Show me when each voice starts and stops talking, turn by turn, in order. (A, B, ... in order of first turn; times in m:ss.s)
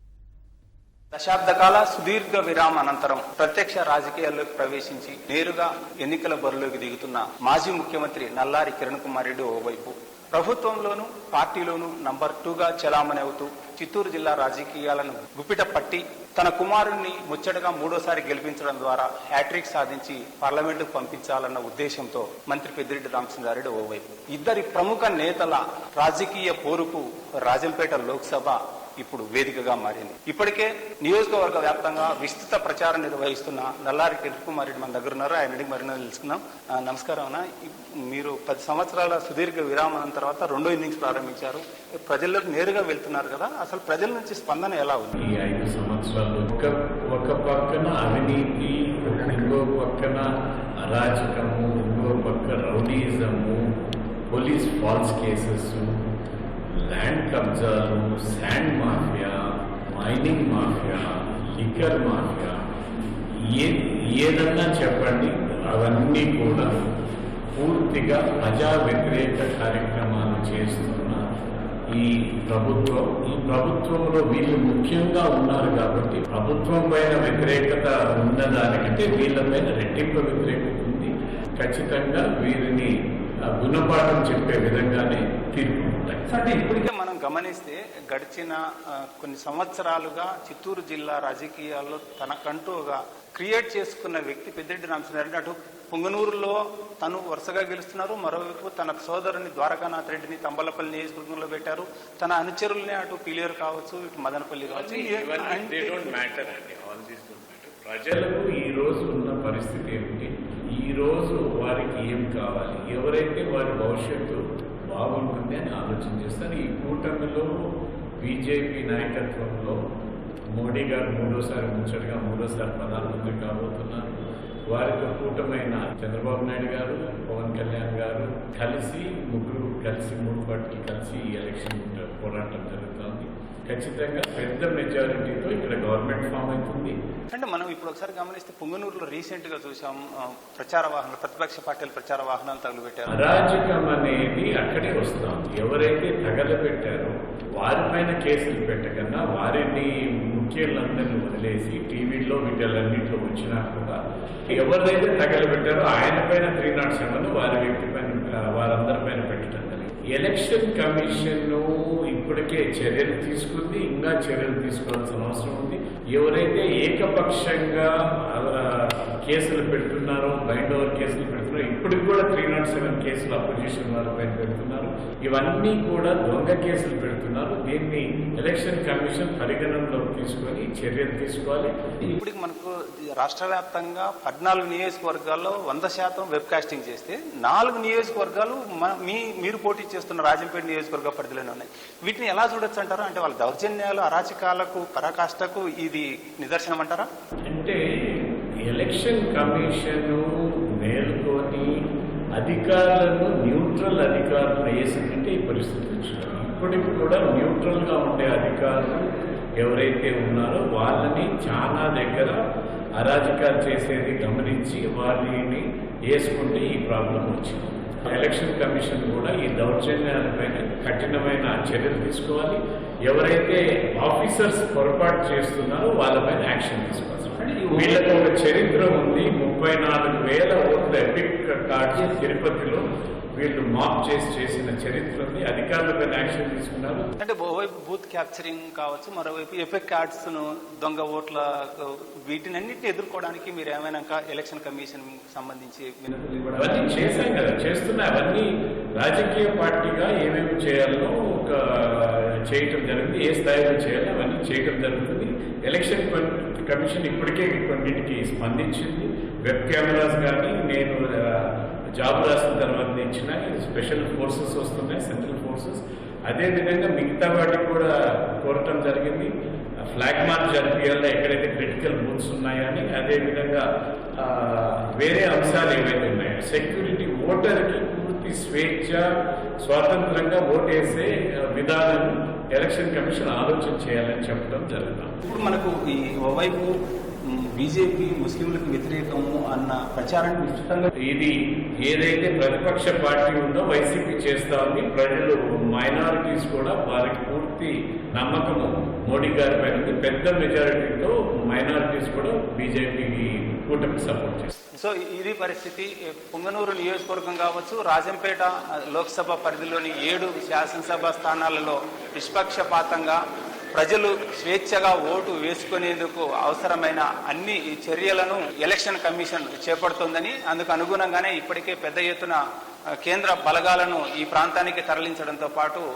0:01.1-0:45.1 A
0:45.2-0:50.3 B
0:49.1-0:49.6 A
0:50.8-0:53.7 B
0:54.3-0:55.9 B
0:56.8-1:02.6 B
1:03.4-1:06.8 B
1:07.6-1:11.2 B
1:11.9-1:22.9 B
1:23.5-1:26.2 B
1:26.3-1:28.6 A
1:29.2-1:46.2 A
1:44.6-1:57.7 B
1:58.2-1:59.8 B
2:00.5-2:04.1 B
2:04.7-2:16.9 B
2:17.3-2:23.3 A
2:23.1-2:34.0 B
2:34.5-3:01.7 B
3:02.0-3:17.1 A
3:17.5-3:17.8 B
3:18.7-3:20.2 B
3:20.8-3:21.7 B
3:22.4-3:29.1 B
3:29.6-3:32.3 B
3:33.0-3:52.8 B
3:47.4-3:48.0 A
3:53.4-3:57.1 B
3:57.2-4:07.0 A
4:06.6-4:08.5 B
4:09.0-4:29.3 B
4:29.8-4:33.6 B
4:34.2-4:39.1 B
4:39.6-4:45.2 B
4:45.2-4:46.7 A
4:47.3-4:50.9 A
4:51.0-5:04.5 B
5:04.7-5:13.2 A
5:13.7-5:22.4 A
5:23.0-5:25.8 A